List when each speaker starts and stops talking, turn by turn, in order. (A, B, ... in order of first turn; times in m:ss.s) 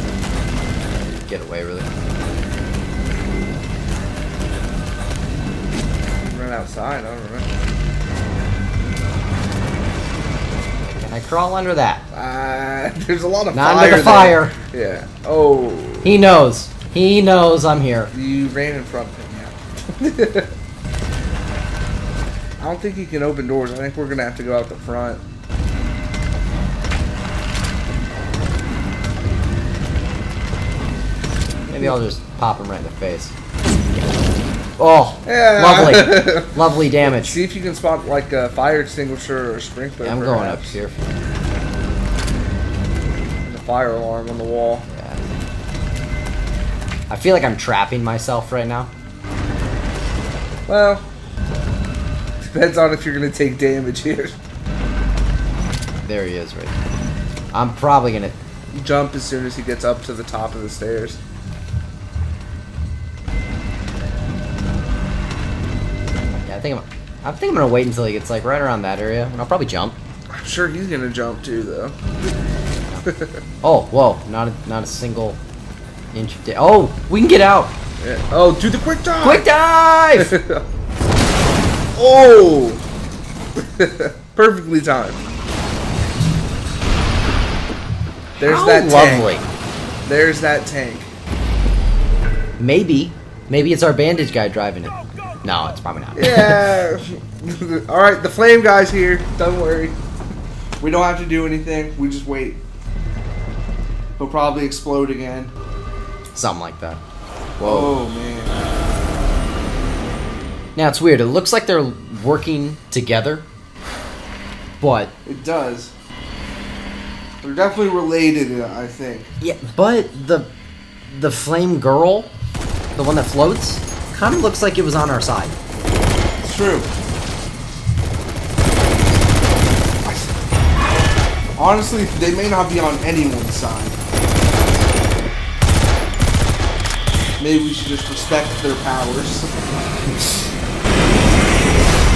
0:01.1-0:01.9 A
0:06.2-0:07.5 B
0:10.9-0:12.1 A
0:12.1-0:16.2 B
0:13.5-0:14.6 A
0:16.0-0:18.1 A
0:18.1-0:20.5 B
0:22.6-0:25.2 B
0:31.7-0:33.3 A
0:34.8-0:37.4 A
0:35.3-0:40.8 B
0:40.0-0:41.0 A
0:43.4-0:44.9 B
0:44.9-0:45.4 A
0:47.1-0:48.9 A
0:50.7-0:51.1 B
0:52.5-0:54.4 B
0:56.0-0:56.8 A
0:57.5-0:58.4 A
0:58.7-1:01.2 B
1:06.4-1:10.0 A
1:10.3-1:12.0 B
1:13.0-1:13.4 B
1:13.6-1:15.4 A
1:16.1-1:17.8 A
1:18.0-1:19.5 B
1:19.2-1:20.3 A
1:20.2-1:20.6 B
1:22.0-1:22.8 B
1:23.6-1:25.2 B
1:28.4-1:29.3 B
1:28.4-1:29.5 A
1:30.0-1:31.1 B
1:32.6-1:36.6 A
1:36.2-1:40.0 B
1:40.8-1:42.6 B
1:44.2-1:45.5 B
1:46.4-1:47.0 A
1:47.6-1:48.0 A
1:47.6-1:48.6 B
1:50.8-1:53.5 A
1:54.8-1:55.2 A
1:55.3-1:55.9 B
1:57.4-1:59.3 B
1:59.4-2:00.5 A
2:01.1-2:02.3 A
2:03.0-2:05.6 A
2:06.4-2:06.9 B
2:11.6-2:14.0 B
2:17.4-2:19.5 B